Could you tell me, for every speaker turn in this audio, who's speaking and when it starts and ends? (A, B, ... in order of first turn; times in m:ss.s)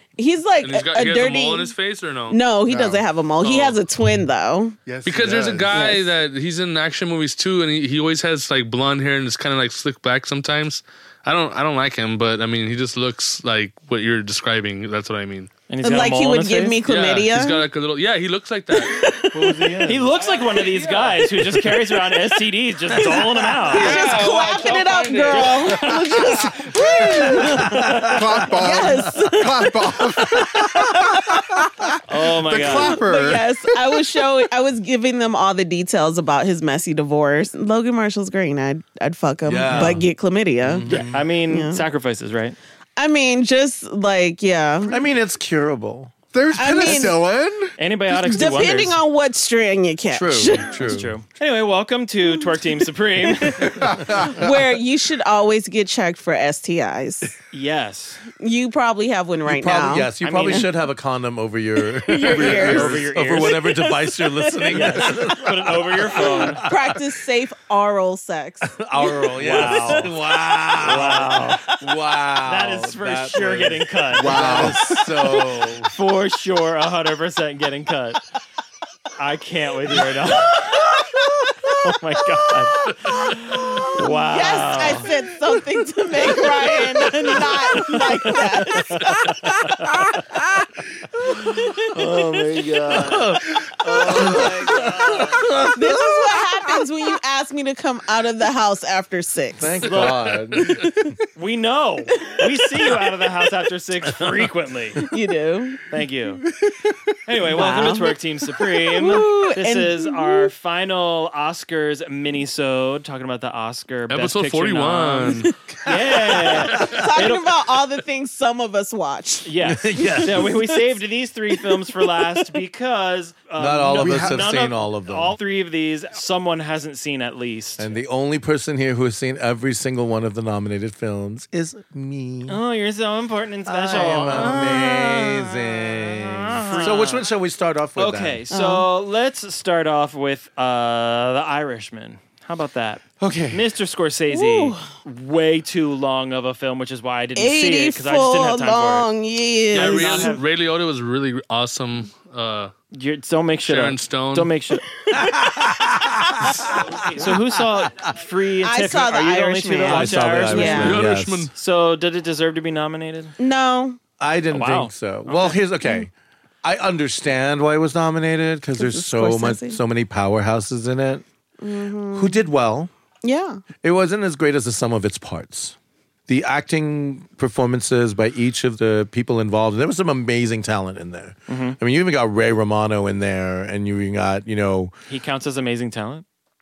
0:00.2-0:01.7 A
0:00.6-0:02.4 B
0:02.3-0:04.8 A
0:02.7-0:03.0 C
0:03.4-0:03.8 B
0:04.8-0:05.8 C
0:05.0-0:15.5 B
0:05.7-0:06.1 A
0:15.7-0:16.8 D
0:15.8-0:17.6 A
0:16.8-0:19.0 B
0:18.7-0:19.8 A
0:19.4-0:20.1 E
0:19.8-0:24.0 D
0:20.0-0:21.3 B
0:23.0-0:23.2 E
0:23.6-0:31.9 A
0:23.7-0:25.9 B
0:25.3-0:26.7 D
0:27.2-0:28.2 E
0:27.4-0:28.2 D
0:28.1-0:34.2 C
0:32.0-0:33.0 D
0:32.7-0:41.8 A
0:39.4-0:40.0 E
0:40.6-0:41.2 E
0:40.9-0:42.6 D
0:43.0-0:45.0 A
0:44.9-0:46.1 E
0:46.3-0:47.8 C
0:46.6-0:47.2 A
0:47.8-0:49.0 D
0:48.1-0:50.8 A
0:48.3-0:48.7 C
0:50.1-0:51.1 E
0:50.7-0:53.9 D
0:53.2-0:57.3 A
0:53.8-0:54.5 C
0:54.1-0:54.5 E
0:57.5-0:58.2 D
0:58.3-1:00.7 A
0:59.4-1:07.0 E
1:00.2-1:00.7 D
1:01.8-1:05.0 A
1:02.2-1:03.6 D
1:04.7-1:06.6 D
1:06.1-1:10.1 A
1:08.6-1:15.9 E
1:09.3-1:10.1 D
1:10.7-1:11.8 D
1:12.4-1:18.2 D
1:14.2-1:14.9 C
1:19.2-1:20.9 D
1:20.4-1:21.7 E
1:21.7-1:25.1 D
1:22.8-1:24.0 E
1:23.8-1:32.2 A
1:26.2-1:28.2 E
1:26.2-1:30.2 D
1:31.2-1:32.0 E
1:31.8-1:35.5 D
1:32.6-1:36.5 E
1:34.0-1:34.5 A
1:35.4-1:41.1 A
1:39.6-1:40.9 E
1:39.8-1:40.4 D
1:41.3-1:45.0 D
1:42.2-1:42.9 A
1:45.0-1:45.8 A
1:45.9-1:46.4 D
1:47.2-1:57.4 D
1:47.4-1:48.2 A
1:48.8-1:50.5 A
1:54.1-1:55.5 B
1:55.5-2:00.8 A
1:55.8-1:57.2 E
1:59.4-2:08.0 D
1:59.6-2:00.5 E
2:03.6-2:05.4 E
2:04.0-2:04.5 C
2:07.8-2:12.6 E
2:12.5-2:14.8 D
2:13.7-2:18.4 E
2:13.9-2:16.0 A
2:16.3-2:17.3 D
2:18.0-2:29.1 D
2:18.5-2:18.9 A
2:23.2-2:23.7 E
2:24.3-2:24.9 A
2:27.4-2:30.4 A
2:29.7-2:32.7 B
2:29.7-2:30.4 D
2:32.9-2:34.8 D
2:33.7-2:34.5 B
2:35.0-2:35.8 A
2:35.1-2:38.1 E
2:36.7-2:43.4 D
2:38.6-2:41.0 A
2:39.8-2:41.5 E
2:40.6-2:41.5 B
2:43.4-2:44.0 A
2:44.2-2:46.1 E
2:44.5-2:45.6 D
2:46.6-2:51.2 E
2:48.7-2:49.8 A
2:51.6-2:52.4 A
2:52.1-2:52.9 E
2:53.2-2:53.6 A
2:53.8-2:55.8 E
2:56.3-3:04.9 E
3:01.5-3:01.8 D
3:05.1-3:06.2 D